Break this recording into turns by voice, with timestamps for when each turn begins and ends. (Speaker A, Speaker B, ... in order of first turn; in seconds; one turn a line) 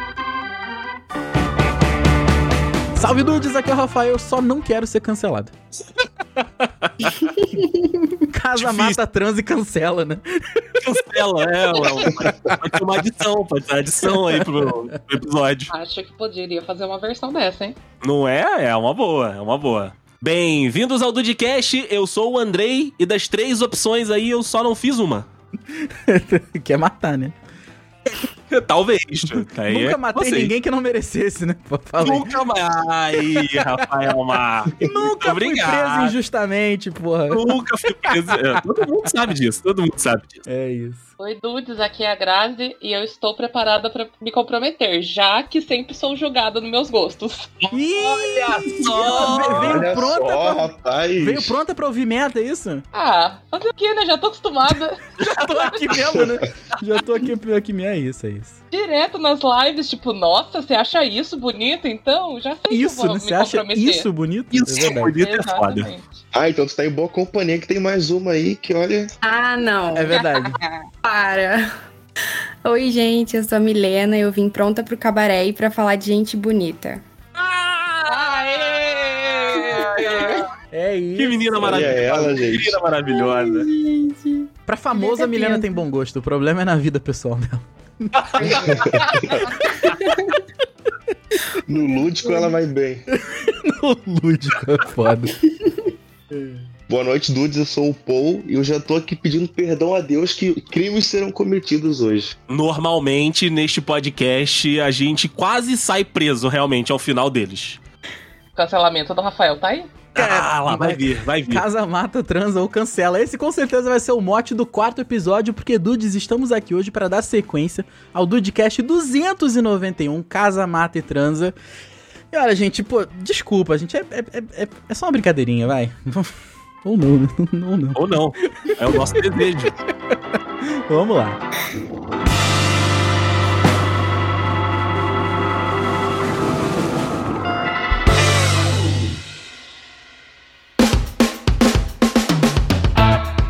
Speaker A: 2.9-5.6
Speaker A: 6.4-6.7
Speaker B: 7.2-8.1
Speaker A: 8.3-10.8
Speaker C: 8.6-9.0
Speaker C: 10.8-15.7
Speaker A: 11.8-12.6
Speaker A: 14.0-14.8
Speaker D: 15.7-17.8
Speaker C: 18.0-25.3
Speaker A: 25.7-27.4
Speaker C: 28.5-30.5
Speaker A: 29.4-32.3
Speaker C: 32.0-36.1
Speaker A: 33.2-33.8
Speaker A: 34.8-38.5
Speaker C: 37.3-40.4
Speaker A: 40.5-41.0
Speaker D: 41.2-47.7
Speaker A: 47.7-52.8
Speaker C: 48.1-49.8
Speaker D: 49.0-49.5
Speaker E: 49.5-51.5
Speaker D: 52.9-55.0
Speaker A: 55.2-58.6
Speaker D: 58.7-64.1
Speaker A: 62.7-65.1
Speaker C: 64.5-65.9
Speaker D: 64.8-66.0
Speaker E: 66.3-69.1
Speaker B: 69.2-70.2
Speaker A: 70.0-70.6
Speaker D: 70.1-70.9
Speaker B: 71.0-71.7
Speaker B: 72.6-77.0
Speaker C: 77.4-78.6
Speaker D: 78.0-80.4
Speaker C: 79.5-80.4
Speaker A: 80.7-82.0
Speaker C: 81.2-83.7
Speaker E: 81.6-82.8
Speaker B: 83.1-85.8
Speaker A: 84.7-88.4
Speaker C: 88.1-89.0
Speaker B: 88.4-89.1
Speaker E: 88.5-89.5
Speaker B: 89.7-90.4
Speaker E: 91.7-93.0
Speaker B: 92.1-92.6
Speaker A: 93.1-95.4
Speaker A: 96.3-96.7
Speaker E: 96.9-102.3
Speaker C: 102.5-107.8
Speaker D: 108.6-109.9
Speaker C: 110.1-111.6
Speaker A: 110.2-121.5
Speaker A: 122.3-126.3
Speaker A: 126.8-128.0
Speaker C: 128.0-129.7
Speaker A: 128.5-129.2
Speaker A: 130.1-131.4